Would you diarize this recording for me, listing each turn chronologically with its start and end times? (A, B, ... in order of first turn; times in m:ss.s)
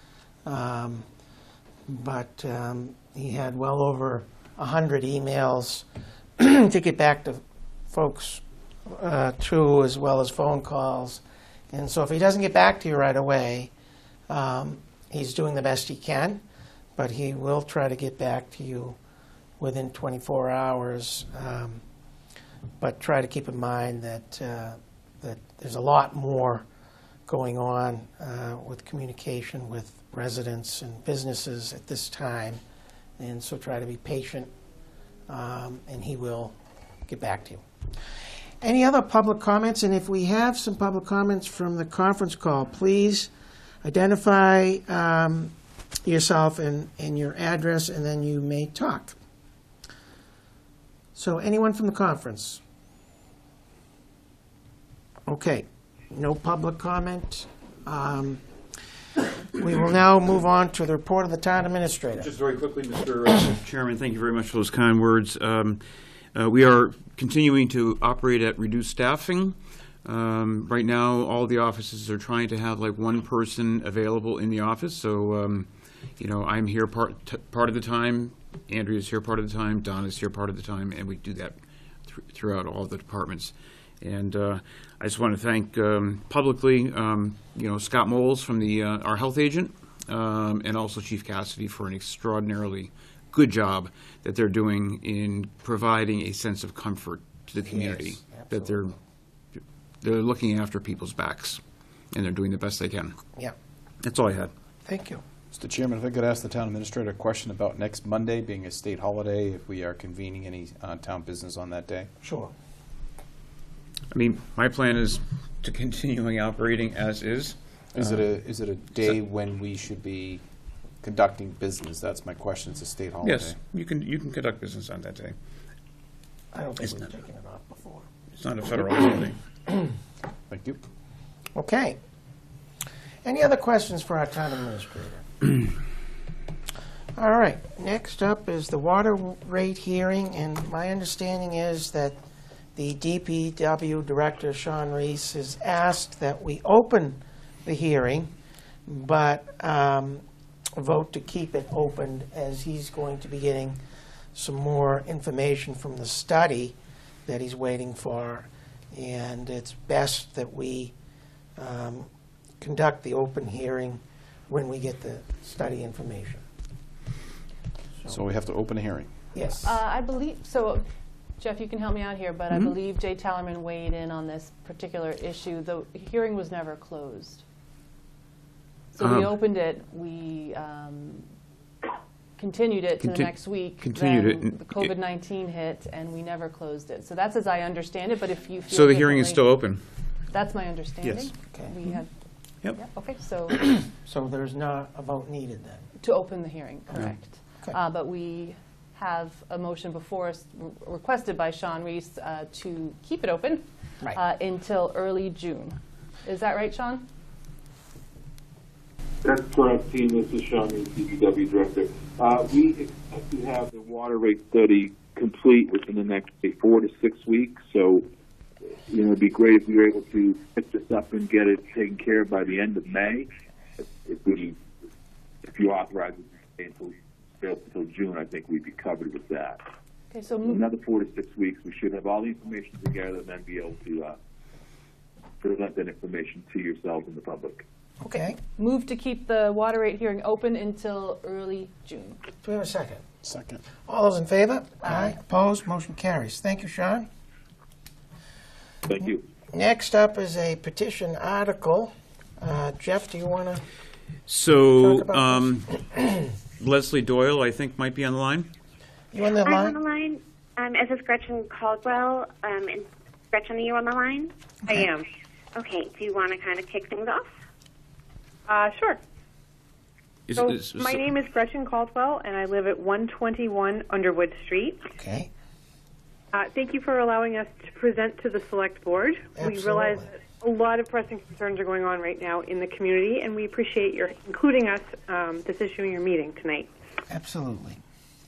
0:00.4-0:01.0 A
0:01.9-0:05.8 A
0:06.4-0:13.7 A
0:14.3-0:16.4 A
0:17.0-0:19.0 A
0:19.6-0:21.8 A
0:22.8-0:26.6 A
0:27.3-0:32.6 A
0:33.2-0:34.5 A
0:35.3-0:36.6 A
0:37.1-0:37.6 A
0:38.6-0:43.3 A
0:43.8-0:45.5 A
0:46.0-0:49.2 A
0:51.2-0:52.6 A
0:55.3-0:58.4 A
0:59.5-1:02.3 A
1:02.2-1:05.8 B
1:06.3-1:21.6 B
1:22.1-1:38.9 B
1:37.6-1:38.8 A
1:40.0-1:41.6 B
1:42.1-1:43.2 B
1:44.0-1:44.5 B
1:44.9-1:45.2 A
1:45.5-1:52.1 C
1:52.2-1:52.5 A
1:54.1-1:57.6 B
1:57.9-2:00.4 C
2:01.0-2:03.6 C
2:03.2-2:05.4 B
2:06.5-2:08.1 A
2:08.3-2:09.4 B
2:10.5-2:10.8 C
2:11.5-2:12.0 A
2:13.2-2:15.3 A
2:17.2-2:22.2 A
2:22.8-2:28.3 A
2:28.9-2:30.2 A
2:30.8-2:33.8 A
2:34.3-2:40.9 A
2:41.6-2:42.1 A
2:42.6-2:46.4 A
2:48.1-2:49.1 C
2:49.3-2:49.8 A
2:49.6-2:50.8 D
2:51.4-2:57.4 D
2:58.9-3:01.3 D
2:59.0-2:59.3 B
3:02.4-3:09.7 D
3:03.0-3:04.9 B
3:08.7-3:09.8 B
3:10.3-3:12.1 D
3:12.7-3:13.8 D
3:14.0-3:15.9 A
3:16.0-3:27.0 D
3:29.2-3:38.0 E
3:38.9-3:43.3 E
3:44.0-3:44.6 E
3:45.4-3:49.6 E
3:50.1-3:50.6 D
3:50.5-3:54.1 E
3:55.4-3:57.6 E
3:58.0-3:58.4 A
3:58.1-4:02.2 D
4:02.4-4:03.0 A
4:03.2-4:03.6 C
4:03.8-4:07.1 A
4:04.8-4:05.2 D
4:08.9-4:09.2 E
4:09.5-4:13.6 A
4:14.3-4:15.7 B
4:14.8-4:15.4 A
4:16.6-4:18.5 B
4:19.1-4:19.8 A
4:19.4-4:24.3 F
4:24.7-4:25.1 G
4:25.6-4:27.3 F
4:28.5-4:29.0 G
4:30.3-4:31.1 B
4:30.3-4:34.8 G
4:34.9-4:35.3 A
4:36.3-4:46.7 G
4:39.4-4:40.1 A
4:47.1-4:47.8 A